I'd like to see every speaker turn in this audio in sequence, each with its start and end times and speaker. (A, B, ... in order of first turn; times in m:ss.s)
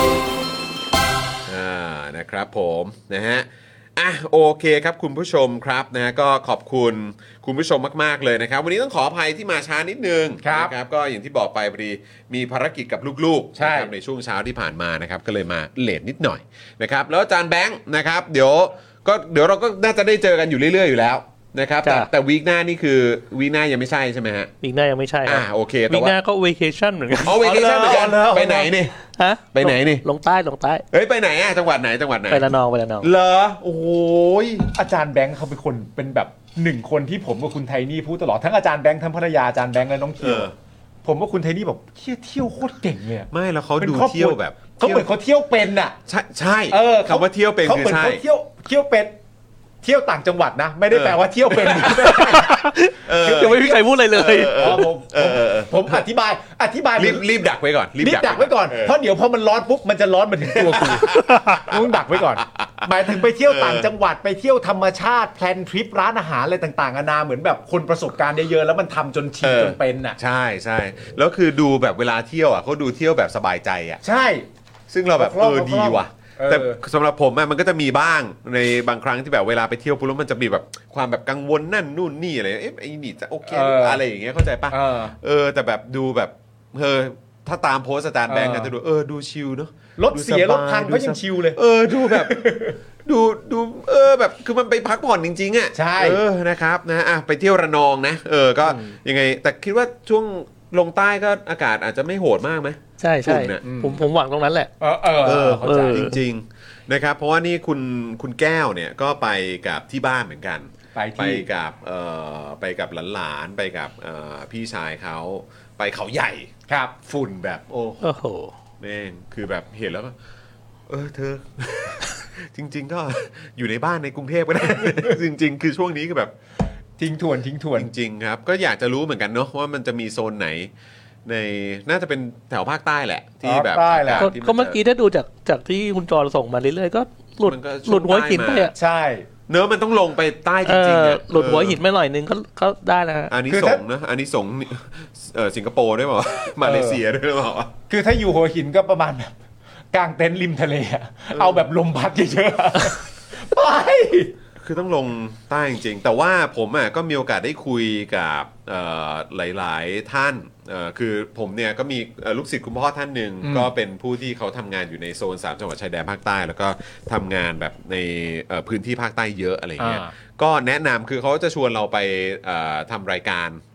0:01.5-0:24.5 A
0:10.4-0:10.7 B
0:13.6-0:13.9 B
0:24.6-0:27.4 C
0:25.2-0:26.2 A
0:27.2-0:29.0 A
0:27.3-0:28.7 B
0:29.2-0:30.8 C
0:29.5-0:30.0 A
0:30.9-0:32.5 A
0:32.3-0:33.1 C
0:33.0-0:34.7 A
0:34.7-0:40.5 B
0:40.2-0:40.5 A
0:41.0-0:46.0 B
0:43.3-0:45.1 A
0:46.1-0:48.2 A
0:46.7-0:49.2 B
0:49.8-0:52.6 B
0:50.9-0:56.0 A
0:52.4-0:54.8 C
0:53.2-0:53.7 B
0:54.5-0:57.3 B
0:57.0-0:59.0 A
0:58.0-1:10.2 B
1:00.5-1:03.9 A
1:09.4-1:14.0 A
1:14.0-1:14.5 B
1:14.9-1:32.5 A
1:15.2-1:16.8 B
1:23.5-1:24.0 B
1:24.7-1:25.2 B
1:28.3-1:28.7 B
1:30.0-1:32.8 B
1:33.0-1:43.8 A
1:35.8-1:36.2 B
1:43.0-1:44.7 C
1:43.6-1:44.0 B
1:44.8-1:46.1 B
1:45.2-1:56.5 A
1:45.6-1:46.2 C
1:51.0-1:51.5 B
1:56.7-1:57.0 B
1:57.0-1:58.0 A
1:58.0-1:58.5 C
1:58.8-2:00.2 A
2:00.9-2:06.3 A
2:07.0-2:07.9 B
2:07.8-2:10.7 A
2:11.2-2:14.8 A
2:13.4-2:14.3 B
2:14.2-2:18.7 C
2:17.4-2:18.7 A
2:18.7-2:19.3 B
2:19.5-2:21.8 A
2:20.7-2:23.4 C
2:23.3-2:27.7 A
2:23.5-2:23.8 B
2:26.6-2:27.0 B
2:27.9-2:29.3 B
2:29.9-2:34.3 B
2:31.3-2:31.6 A
2:34.6-2:53.6 A
2:43.4-2:43.7 B
2:49.8-2:50.1 B